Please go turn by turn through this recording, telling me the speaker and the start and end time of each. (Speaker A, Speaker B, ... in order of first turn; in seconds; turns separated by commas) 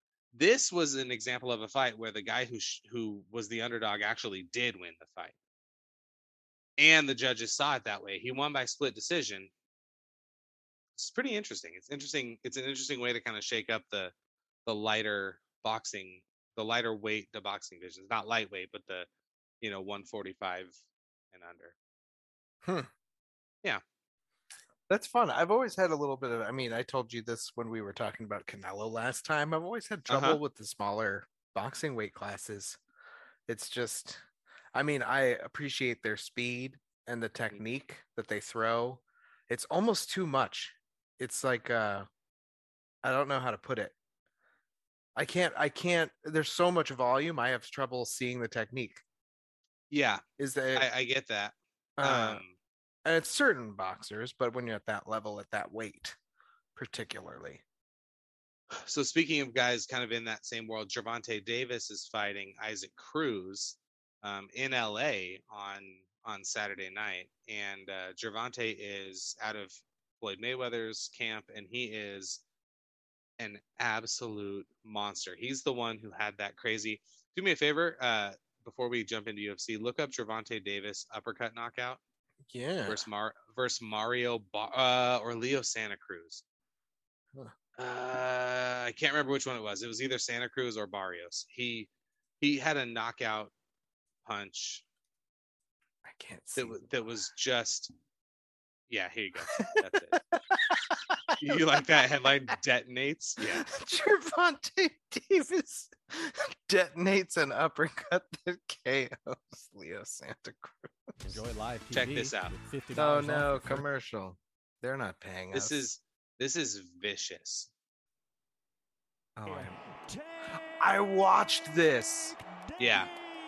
Speaker A: 0.3-5.3, Speaker A: 6.8-9.5, Speaker A: 10.9-14.1, Speaker A: 14.7-19.1, Speaker A: 19.6-20.7, Speaker A: 21.3-21.7, Speaker B: 22.6-22.9, Speaker B: 24.9-32.8, Speaker A: 30.1-30.4, Speaker B: 33.5-34.2, Speaker B: 34.7-42.1, Speaker B: 43.0-43.9, Speaker B: 45.1-49.0, Speaker A: 49.9-50.2, Speaker B: 50.4-50.9, Speaker A: 50.7-52.5, Speaker B: 52.0-52.4, Speaker B: 53.0-56.1, Speaker B: 56.8-57.6, Speaker A: 58.8-72.4, Speaker A: 73.4-82.0, Speaker B: 82.5-83.0, Speaker A: 82.9-86.4, Speaker A: 87.8-91.9, Speaker A: 92.4-93.5, Speaker A: 94.2-94.8, Speaker B: 96.0-96.8, Speaker A: 96.5-97.9, Speaker A: 98.9-100.2, Speaker B: 99.5-99.8, Speaker B: 100.3-102.0, Speaker A: 101.4-103.7, Speaker B: 103.5-110.9, Speaker C: 111.2-113.8, Speaker A: 111.9-112.5, Speaker B: 112.9-115.8, Speaker A: 115.5-117.7, Speaker B: 119.3-119.8, Speaker B: 120.8-122.4, Speaker A: 122.8-123.1